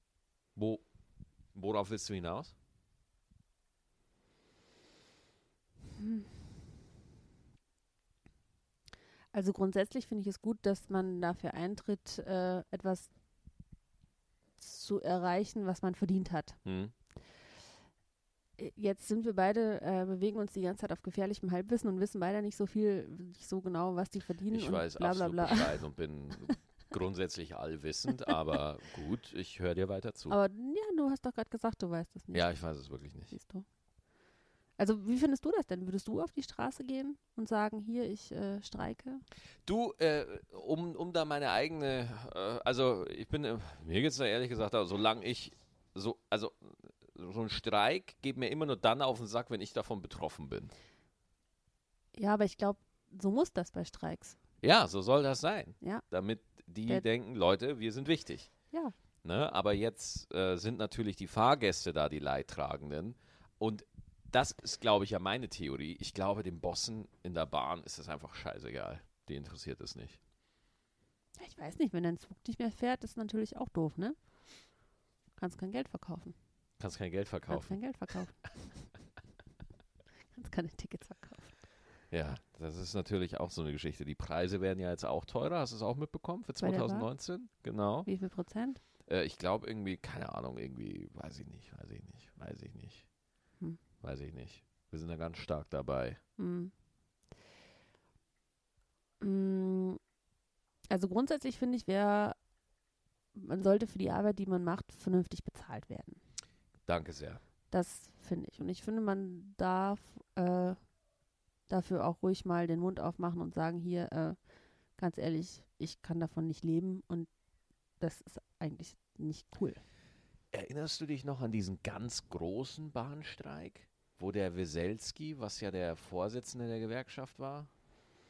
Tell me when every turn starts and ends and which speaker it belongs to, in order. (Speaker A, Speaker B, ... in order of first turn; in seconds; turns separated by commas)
Speaker A: 0.6-0.8, Speaker A: 1.6-2.5, Speaker B: 5.9-6.3, Speaker B: 9.3-13.1, Speaker B: 14.6-16.6, Speaker A: 16.6-16.9, Speaker B: 18.6-25.7, Speaker A: 24.5-30.4, Speaker B: 30.3-32.5, Speaker A: 32.3-33.3, Speaker B: 33.3-33.7, Speaker B: 34.8-39.2, Speaker A: 39.7-50.7, Speaker B: 52.1-54.4, Speaker A: 54.6-58.5, Speaker A: 59.2-70.2, Speaker B: 71.4-74.2, Speaker B: 75.4-76.4, Speaker A: 76.8-77.8, Speaker B: 77.5-78.4, Speaker B: 80.3-81.6, Speaker A: 82.1-88.1, Speaker B: 86.6-87.1, Speaker B: 88.1-88.8, Speaker A: 89.1-93.1, Speaker A: 94.0-96.2, Speaker B: 96.4-96.7, Speaker B: 99.2-100.0, Speaker B: 100.9-102.4, Speaker B: 103.3-106.2, Speaker A: 106.9-107.4, Speaker B: 107.7-110.8, Speaker B: 111.7-114.4, Speaker B: 115.0-117.3, Speaker B: 118.0-119.8, Speaker A: 120.5-127.7